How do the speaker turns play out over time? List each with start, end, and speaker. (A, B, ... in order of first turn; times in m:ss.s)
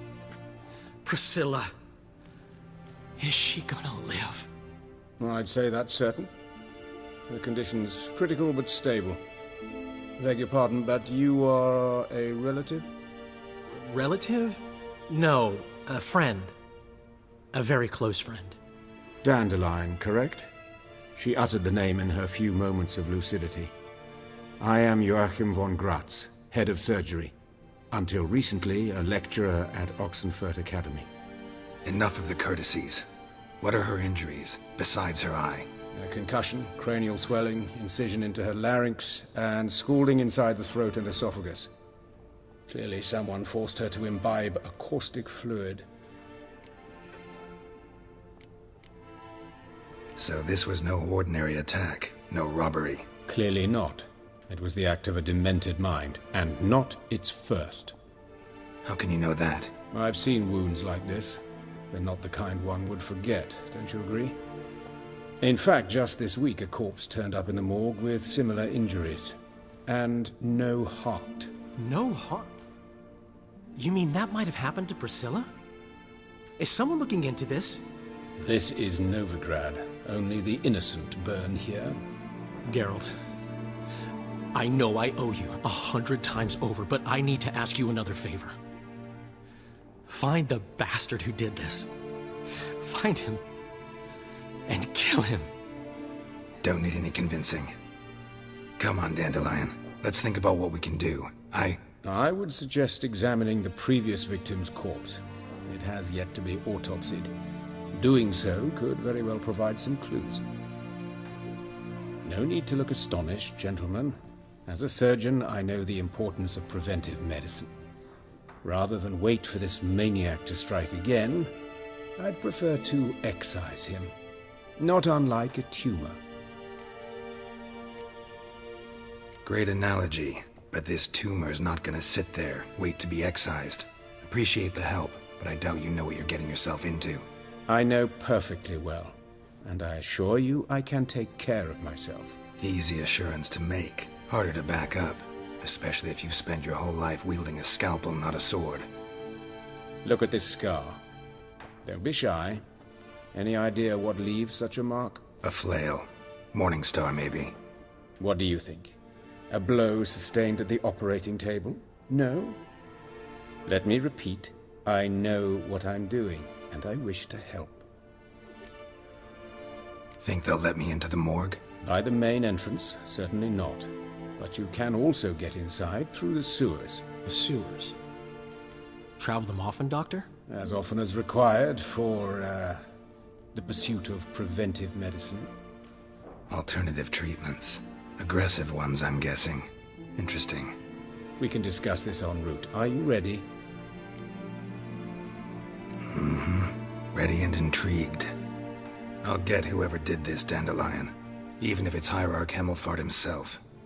0:01.0-0:01.7 A
0:03.2-0:04.5 A
0:05.2-0:06.3 B
0:07.3-0:09.2 B
0:10.2-0:12.9 B
0:13.8-0:16.5 A
0:17.5-0:18.6 A
0:19.2-0:20.5 B
0:21.2-0:23.7 B
0:24.6-0:27.3 B
0:27.9-0:31.1 B
0:31.8-0:33.1 C
0:33.6-0:35.7 C
0:35.9-0:41.7 B
0:42.7-0:45.9 B
0:50.2-0:53.1 C
0:53.3-0:58.0 B
0:58.8-0:59.7 C
0:59.9-1:04.4 B
1:05.4-1:09.4 B
1:09.9-1:11.5 B
1:11.8-1:12.5 A
1:13.8-1:15.5 A
1:16.6-1:17.8 A
1:18.4-1:22.0 B
1:22.7-1:23.2 A
1:24.5-1:28.6 A
1:30.1-1:31.9 A
1:32.6-1:33.4 A
1:34.7-1:35.5 A
1:36.6-1:37.7 C
1:38.8-1:41.8 C
1:42.0-1:47.3 B
1:47.9-1:50.4 B
1:52.2-1:57.7 B
1:58.6-2:01.5 B
2:02.2-2:04.1 B
2:04.8-2:06.2 B
2:09.4-2:17.3 C
2:17.7-2:22.4 B
2:22.6-2:28.9 C
2:30.0-2:31.0 B
2:31.8-2:32.6 B
2:33.3-2:35.2 B
2:35.4-2:37.6 C
2:38.2-2:39.0 B
2:39.5-2:42.6 B
2:43.7-2:47.9 B
2:50.2-2:51.6 C
2:51.8-2:57.0 B
2:57.3-2:58.0 A
2:59.2-3:00.3 A
3:00.5-3:02.8 B
3:03.5-3:05.5 B
3:06.5-3:10.8 C
3:11.4-3:13.5 B
3:16.0-3:18.3 C
3:19.2-3:23.6 C